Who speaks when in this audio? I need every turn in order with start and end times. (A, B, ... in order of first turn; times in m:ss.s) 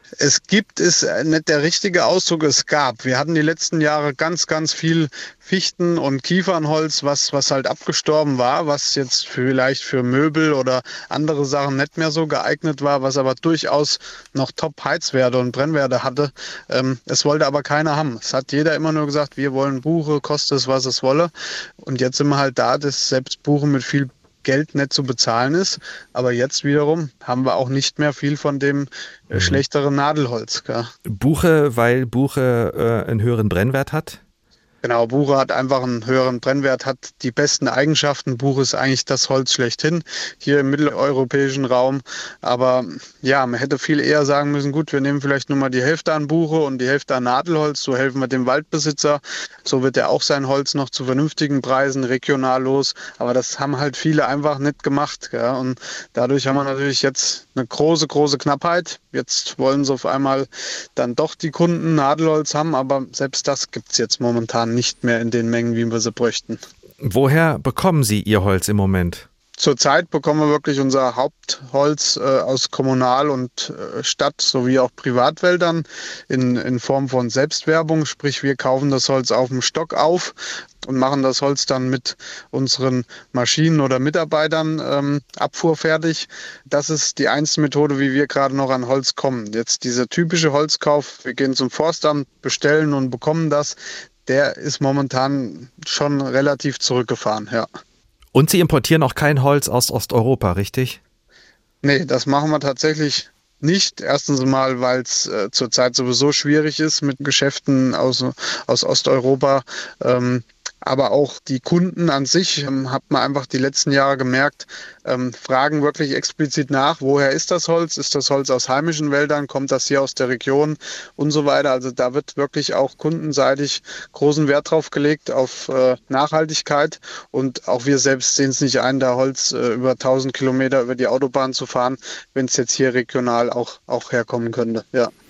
0:00.2-0:30.9 A
0:29.3-0:29.6 B
0:31.0-0:34.2 B
0:34.8-1:06.6 A
1:07.0-1:09.3 B
1:09.6-1:37.7 A
1:38.3-1:41.0 B
1:41.8-2:15.1 A